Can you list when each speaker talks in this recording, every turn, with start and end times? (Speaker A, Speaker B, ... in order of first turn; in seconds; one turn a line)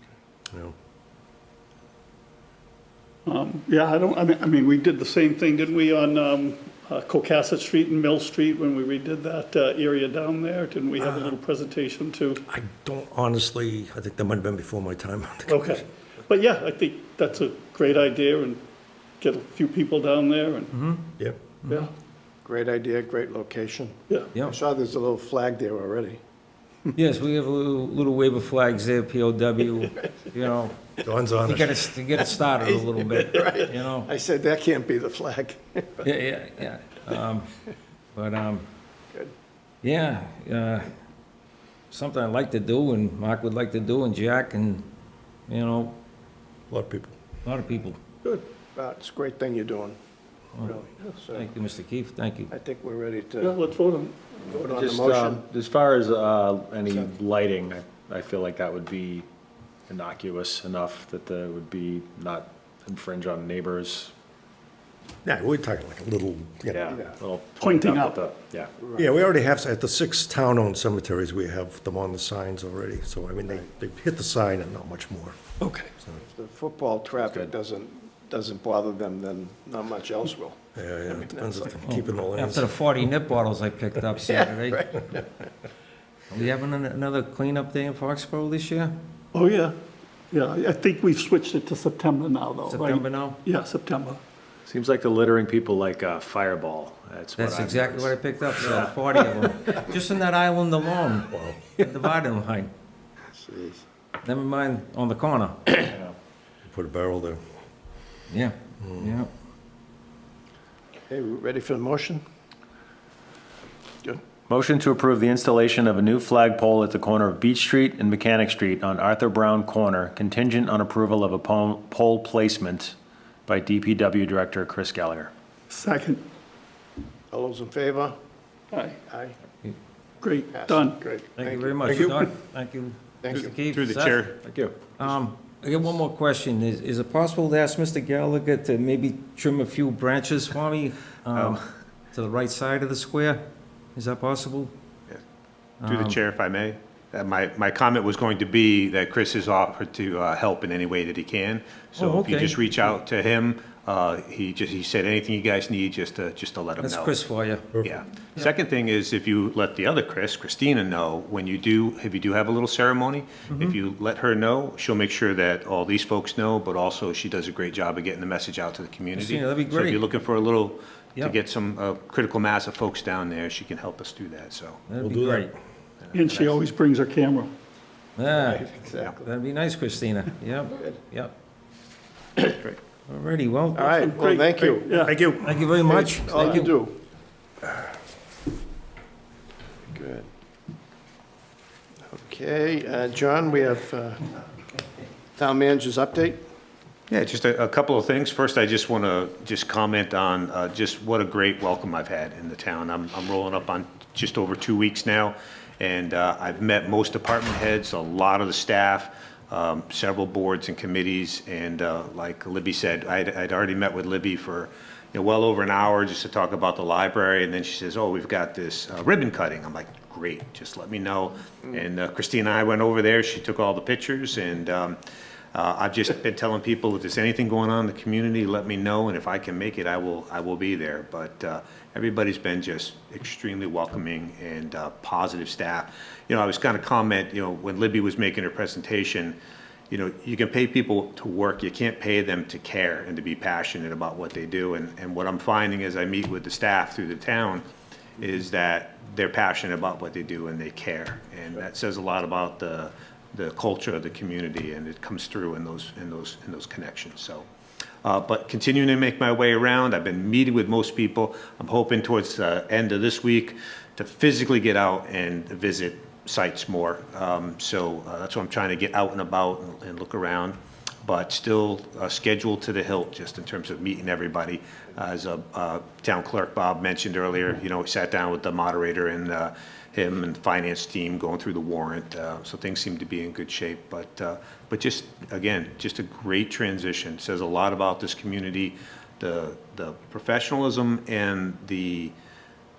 Speaker A: 3.3-12.4
Speaker B: 11.0-11.3
Speaker B: 12.5-15.8
Speaker A: 15.5-18.6
Speaker A: 19.2-20.7
Speaker C: 20.7-21.1
Speaker D: 22.4-26.2
Speaker C: 26.9-30.8
Speaker B: 31.0-31.8
Speaker C: 31.4-34.1
Speaker D: 32.6-36.1
Speaker C: 36.0-37.5
Speaker C: 38.1-38.6
Speaker C: 39.8-40.9
Speaker C: 41.9-44.9
Speaker C: 45.5-46.0
Speaker B: 46.7-47.2
Speaker C: 47.5-48.0
Speaker D: 48.8-50.0
Speaker D: 50.6-51.5
Speaker C: 51.3-52.5
Speaker D: 52.5-53.6
Speaker A: 53.4-54.4
Speaker D: 54.5-55.5
Speaker E: 54.5-59.3
Speaker E: 59.9-64.1
Speaker B: 65.2-66.9
Speaker E: 66.7-68.7
Speaker D: 66.9-67.2
Speaker A: 67.6-68.2
Speaker D: 68.8-69.1
Speaker B: 69.0-75.4
Speaker A: 75.6-75.9
Speaker D: 76.2-80.6
Speaker E: 77.2-77.5
Speaker B: 80.8-82.7
Speaker D: 81.1-81.4
Speaker C: 81.8-85.0
Speaker C: 86.3-88.9
Speaker A: 89.3-89.8
Speaker A: 90.3-94.2
Speaker C: 92.7-93.4
Speaker E: 94.7-99.8
Speaker C: 97.4-102.7
Speaker B: 101.3-101.7
Speaker D: 103.3-103.8
Speaker C: 104.2-105.9
Speaker B: 106.7-107.4
Speaker C: 108.3-109.3
Speaker B: 108.8-109.1
Speaker D: 111.1-112.2
Speaker E: 114.5-125.3
Speaker A: 125.7-126.2
Speaker D: 127.3-128.2
Speaker A: 128.7-129.0
Speaker D: 129.1-129.3
Speaker A: 130.2-131.0
Speaker D: 130.5-131.9
Speaker C: 131.4-134.3
Speaker F: 131.9-132.1
Speaker D: 133.2-133.5
Speaker F: 133.3-134.4
Speaker E: 134.4-134.8
Speaker C: 135.0-143.4
Speaker F: 141.3-141.6
Speaker C: 143.9-144.7
Speaker C: 145.8-146.2
Speaker F: 145.9-157.2
Speaker C: 152.0-152.7
Speaker C: 156.8-157.8
Speaker F: 157.8-174.8
Speaker C: 163.5-163.8
Speaker C: 169.1-170.0
Speaker C: 174.9-175.5
Speaker B: 175.0-175.5
Speaker F: 176.0-176.6
Speaker A: 176.1-177.5
Speaker C: 178.2-181.3
Speaker D: 178.3-179.3
Speaker F: 182.5-182.8
Speaker C: 183.1-183.9
Speaker D: 183.7-184.9
Speaker A: 183.9-185.2
Speaker B: 184.7-185.6
Speaker C: 185.3-186.8
Speaker D: 185.8-187.0
Speaker D: 189.9-190.3
Speaker D: 192.1-194.2
Speaker D: 195.4-196.4
Speaker F: 197.1-225.0
Speaker F: 225.5-239.4
Speaker F: 239.9-247.6
Speaker F: 248.2-257.5
Speaker F: 258.0-292.1